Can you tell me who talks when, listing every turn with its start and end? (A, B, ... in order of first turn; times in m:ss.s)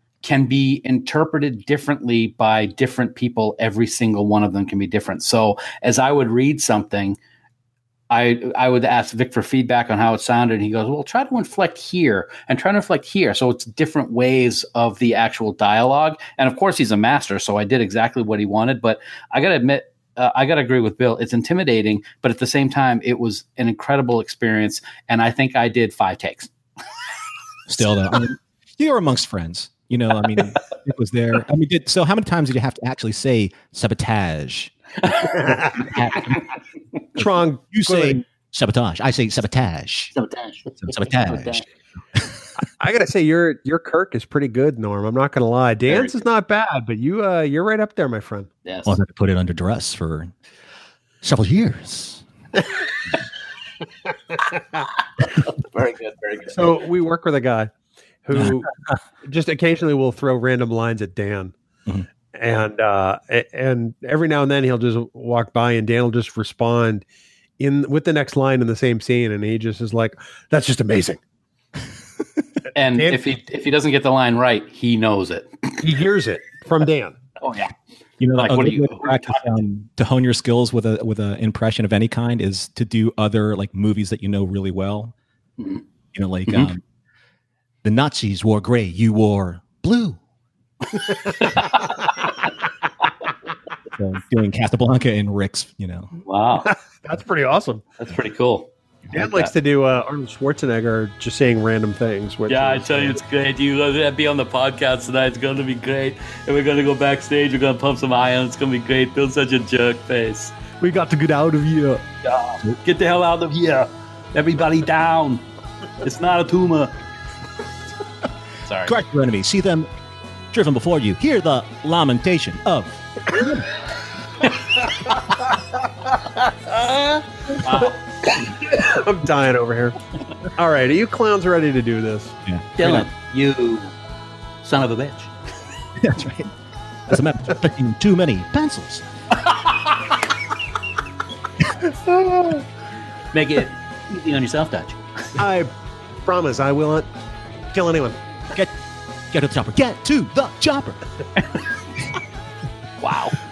0:00.2-0:07.2 A
0:08.1-0:26.5 A
0:27.7-0:34.7 B
0:35.4-0:36.5 B
0:37.2-0:38.2 C
0:37.2-0:40.1 B
0:40.2-0:41.6 A
0:40.8-0:41.6 B
0:42.8-0:48.5 C
0:45.9-0:46.2 A
0:48.6-0:49.0 A
0:48.9-0:50.3 B
0:51.2-0:52.2 B
0:55.4-0:56.7 A
0:56.5-0:57.7 C
0:58.2-1:01.6 C
1:02.3-1:07.0 C
1:07.6-1:11.2 C
1:12.7-1:15.8 A
1:15.8-1:17.2 C
1:17.4-1:17.7 A
1:18.2-1:25.1 B
1:18.3-1:19.6 A
1:26.1-1:26.8 B
1:27.8-1:30.2 B
1:31.4-1:32.3 A
1:34.0-1:36.1 B
1:36.2-1:36.7 A
1:36.6-1:37.9 C
1:38.0-1:39.5 A
1:39.1-1:43.2 C
1:42.5-1:50.6 A
1:50.8-1:52.0 C
1:52.2-1:55.4 A
1:56.0-1:56.9 A
1:58.7-1:59.0 A
1:58.8-1:59.9 B
2:00.5-2:03.7 B
2:06.3-2:07.3 C
2:07.6-2:08.5 A
2:08.6-2:10.0 C
2:10.5-2:12.4 C
2:12.5-2:13.1 B
2:12.8-2:13.9 A
2:14.6-2:15.3 A
2:16.0-2:16.5 B
2:17.1-2:19.0 B
2:21.8-2:22.7 C
2:23.3-2:25.0 A
2:25.4-2:25.7 C
2:26.2-2:27.1 C
2:27.7-2:28.2 C
2:29.3-2:31.0 B
2:33.0-2:33.4 A